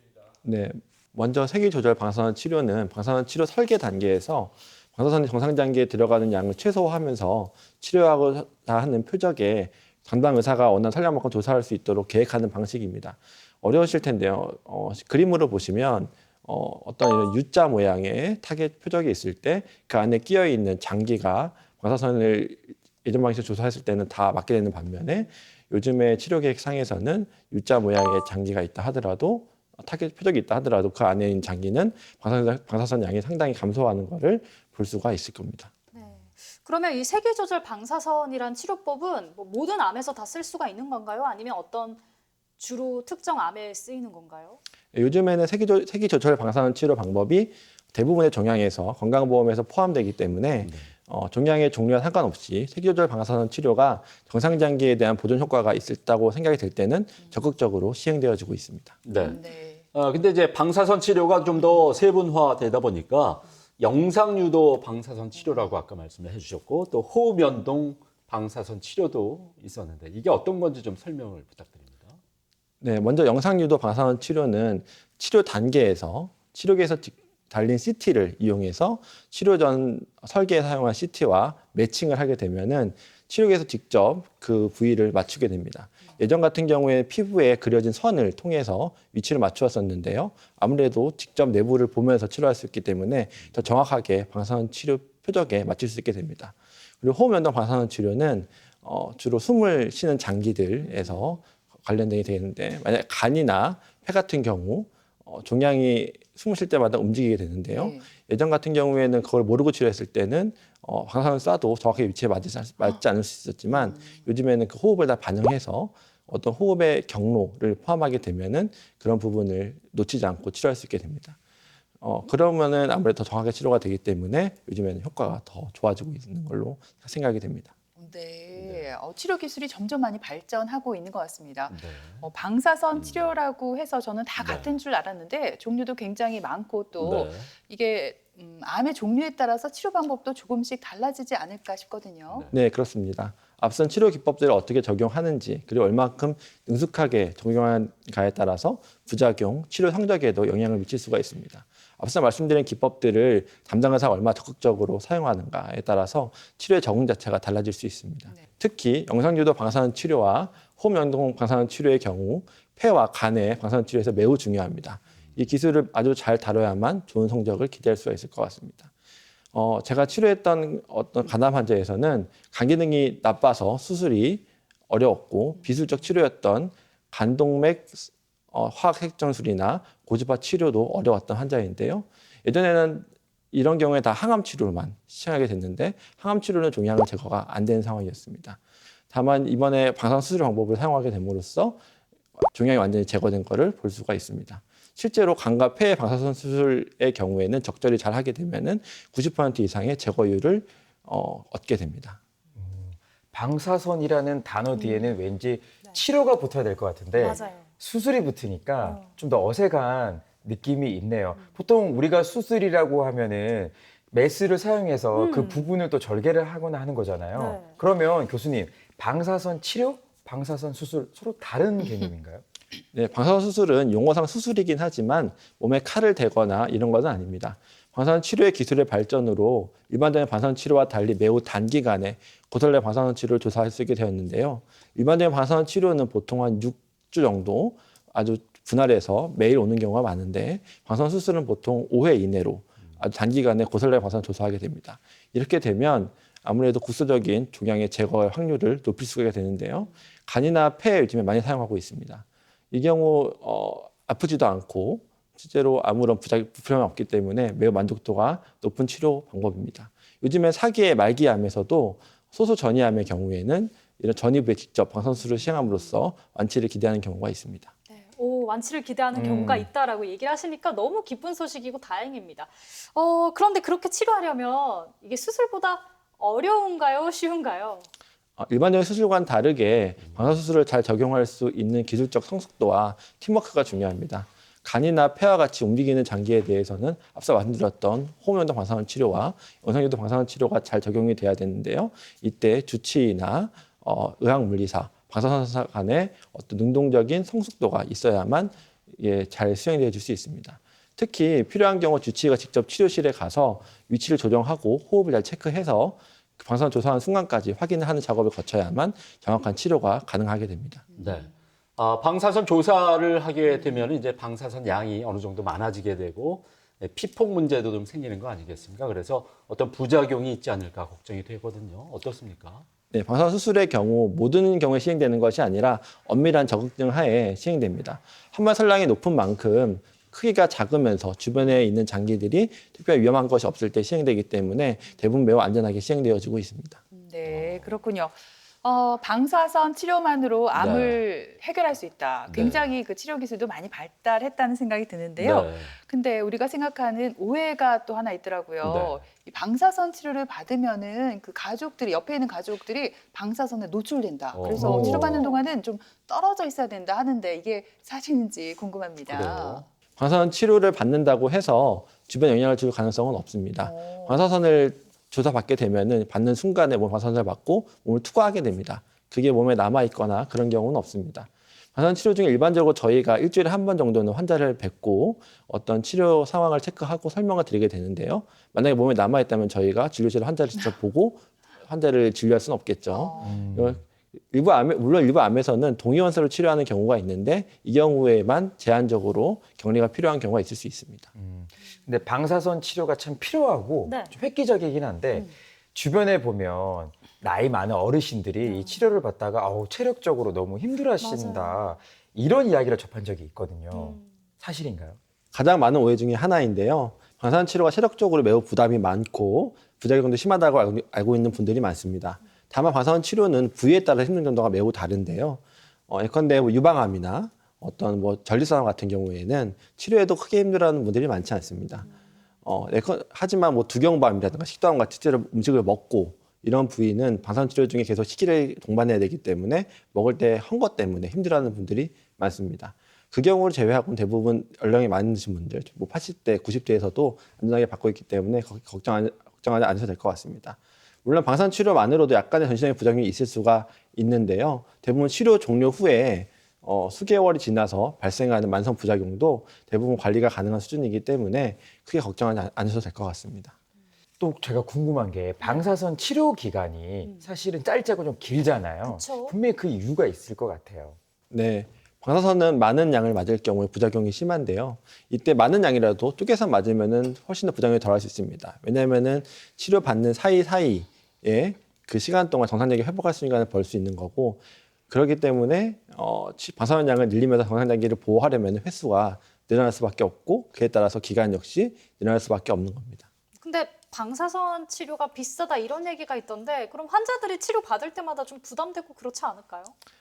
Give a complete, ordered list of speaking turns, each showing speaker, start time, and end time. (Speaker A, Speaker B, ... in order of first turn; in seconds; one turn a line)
Speaker A: 0.4-35.7
Speaker B: 35.9-42.0
Speaker B: 42.6-44.6
Speaker A: 44.9-59.0
Speaker C: 50.6-50.9
Speaker C: 59.1-59.4
Speaker D: 59.1-59.8
Speaker C: 59.9-72.2
Speaker A: 72.8-121.4
Speaker D: 107.7-108.1
Speaker A: 122.0-127.7
Speaker D: 128.0-142.5
Speaker C: 128.6-128.8
Speaker C: 131.7-132.2
Speaker C: 132.9-133.3
Speaker C: 134.4-134.7
Speaker C: 137.0-137.5
Speaker A: 142.5-168.9
Speaker A: 169.5-188.6
Speaker A: 189.1-191.8
Speaker A: 192.4-202.2
Speaker E: 202.6-222.4
Speaker B: 204.8-205.1
Speaker B: 207.1-207.7
Speaker B: 208.8-209.1
Speaker B: 215.1-215.7
Speaker B: 217.3-217.8
Speaker A: 222.9-267.7
Speaker B: 267.9-277.9
Speaker E: 269.1-269.7
Speaker A: 278.4-310.9
Speaker C: 311.0-322.7
Speaker A: 322.9-336.8
Speaker D: 336.9-359.6
Speaker C: 337.3-337.7
Speaker C: 340.5-341.0
Speaker C: 342.3-342.7
Speaker C: 345.2-345.7
Speaker C: 348.6-349.0
Speaker C: 354.3-355.2
Speaker E: 354.5-355.2
Speaker C: 359.1-359.6
Speaker A: 360.0-391.1
Speaker D: 363.6-364.2
Speaker D: 382.9-383.4
Speaker E: 383.2-383.8
Speaker E: 391.1-405.0
Speaker B: 393.9-394.1
Speaker B: 398.4-399.0
Speaker B: 401.0-401.8
Speaker B: 403.7-404.2
Speaker A: 405.3-421.9
Speaker A: 422.4-453.5
Speaker E: 454.2-461.0
Speaker B: 455.4-455.7
Speaker B: 458.8-459.4
Speaker A: 461.3-483.1
Speaker B: 483.4-489.7